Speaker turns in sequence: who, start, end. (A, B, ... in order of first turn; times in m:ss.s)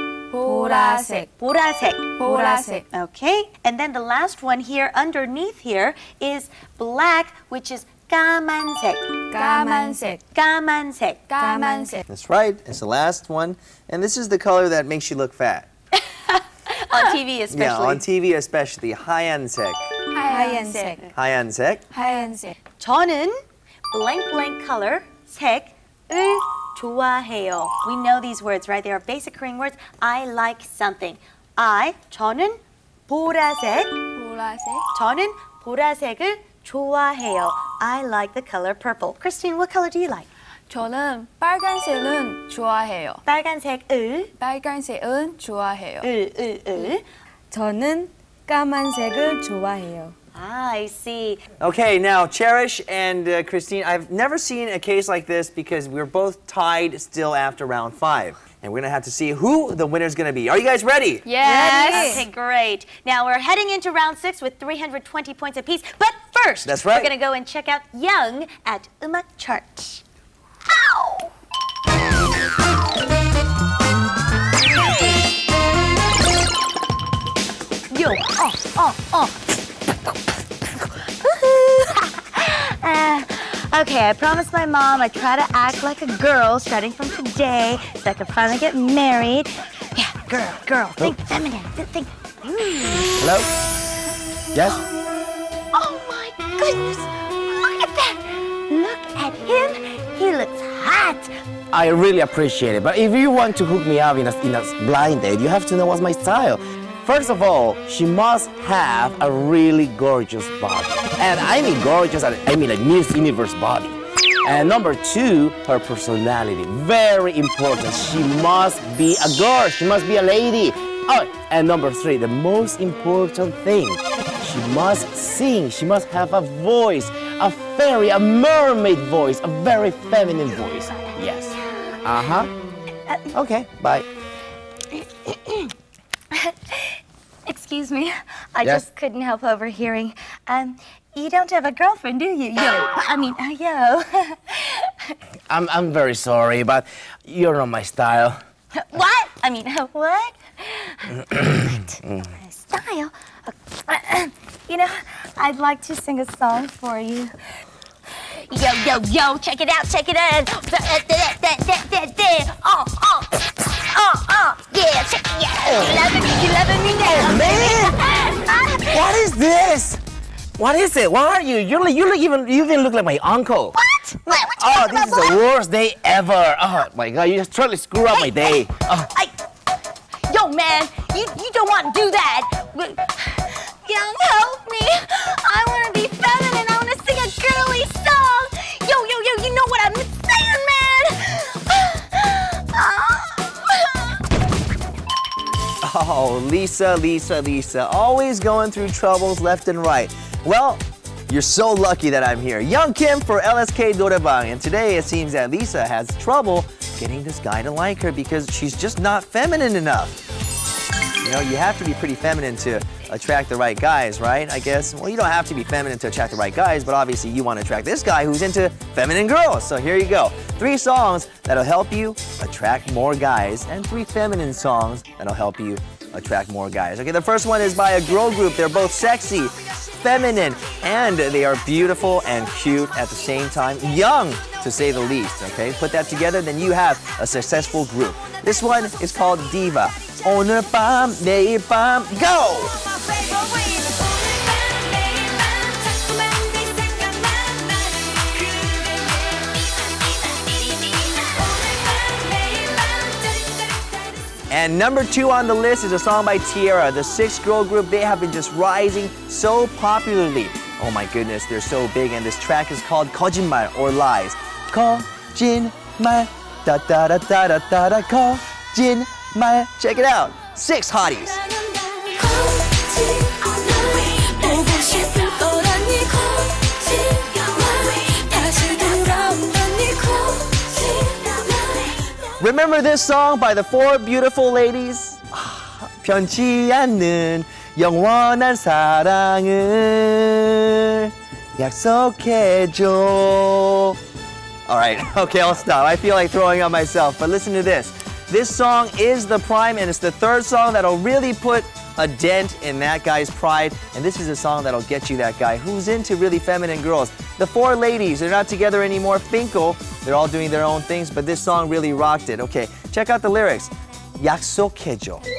0:00.3-0:01.3 A
0:00.4-0:01.2 B
0:01.4-0:09.0 C
0:02.2-0:02.8 A
0:02.2-0:02.8 B
0:09.3-0:10.2 A
0:09.3-0:10.2 B
0:10.3-0:11.2 C
0:11.3-0:12.0 A
0:11.4-0:12.0 B
0:12.1-0:15.7 D
0:16.1-0:18.0 C
0:17.5-0:19.8 D
0:20.1-0:21.1 A
0:20.2-0:21.1 B
0:21.1-0:21.8 D
0:21.9-0:22.5 A
0:21.9-0:22.5 B
0:22.8-0:23.4 C
0:23.9-0:33.9 C
0:34.1-0:34.8 A
0:34.9-0:40.3 C
0:40.7-0:43.2 A
0:43.2-0:44.3 C
0:44.4-0:46.1 A
0:46.0-0:47.0 C
0:47.5-0:50.1 B
0:50.3-0:51.4 C
0:51.6-1:01.2 D
1:01.2-1:02.2 A
1:01.4-1:02.2 B
1:01.4-1:10.0 C
1:06.6-1:07.1 D
1:10.7-1:11.3 C
1:17.9-1:19.4 C
1:20.7-1:33.2 C
1:33.2-1:33.5 E
1:34.5-1:34.8 E
1:35.7-1:41.3 C
1:41.7-2:12.5 E
2:13.3-2:14.0 E
2:15.3-2:15.7 C
2:16.3-2:25.1 C
2:25.5-2:28.4 E
2:28.7-2:37.3 C
2:38.5-2:49.1 C
2:45.7-2:46.2 E
2:47.0-2:48.0 E
2:48.9-2:50.0 E
2:50.6-2:53.8 E
2:53.8-2:55.4 C
2:54.3-2:59.1 E
2:58.1-2:59.3 C
3:00.3-3:14.2 C
3:15.8-3:30.2 D
3:31.2-4:02.8 D
4:14.5-4:31.4 D
4:32.2-4:41.8 A
4:42.4-4:54.0 D
4:54.7-5:15.2 D